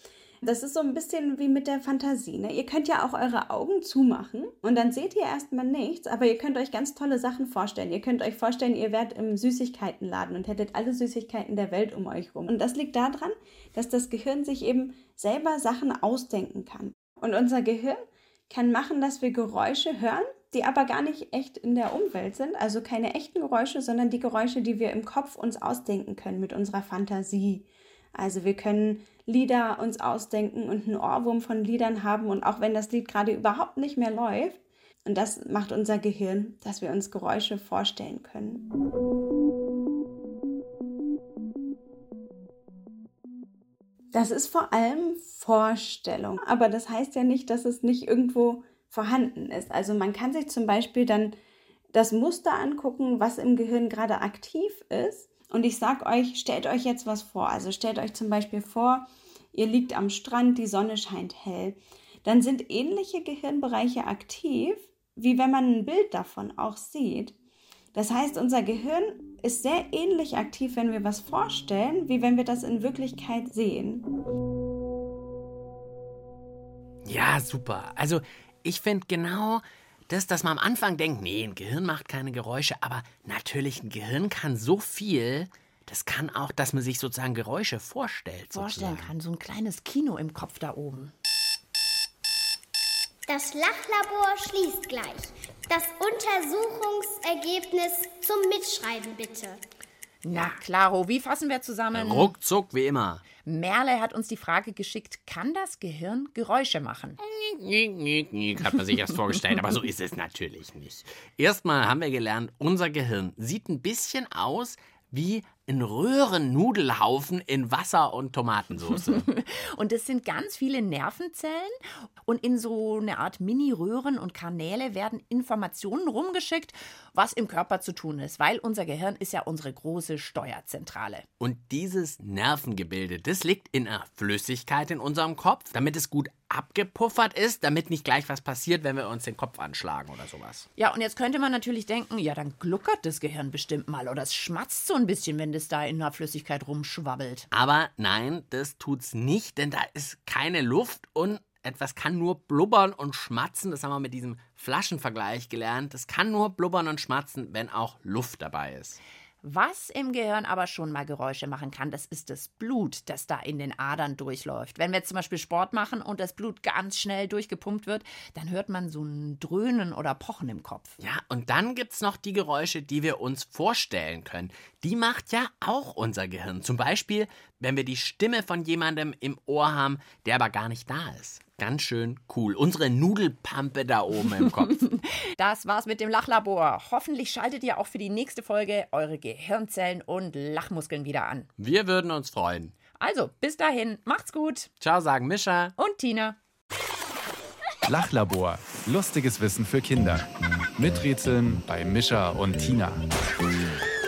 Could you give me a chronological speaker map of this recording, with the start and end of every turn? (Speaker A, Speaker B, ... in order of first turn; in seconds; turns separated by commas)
Speaker A: 0.4-38.6, Speaker A: 44.1-51.4, Speaker A: 51.9-67.3, Speaker A: 67.9-74.0, Speaker B: 77.0-89.1, Speaker C: 88.5-91.1, Speaker D: 93.3-99.6, Speaker C: 100.2-102.3, Speaker B: 100.3-100.6, Speaker B: 101.9-103.2, Speaker C: 103.4-107.2, Speaker B: 107.2-119.3, Speaker C: 119.0-131.2, Speaker B: 131.4-140.7, Speaker C: 140.8-147.5, Speaker B: 147.5-159.0, Speaker C: 159.4-171.0, Speaker B: 171.0-184.8, Speaker C: 184.6-191.5, Speaker B: 191.6-192.7, Speaker C: 193.0-194.7, Speaker B: 194.8-195.7, Speaker C: 195.8-196.4, Speaker E: 197.9-200.2, Speaker E: 200.8-203.0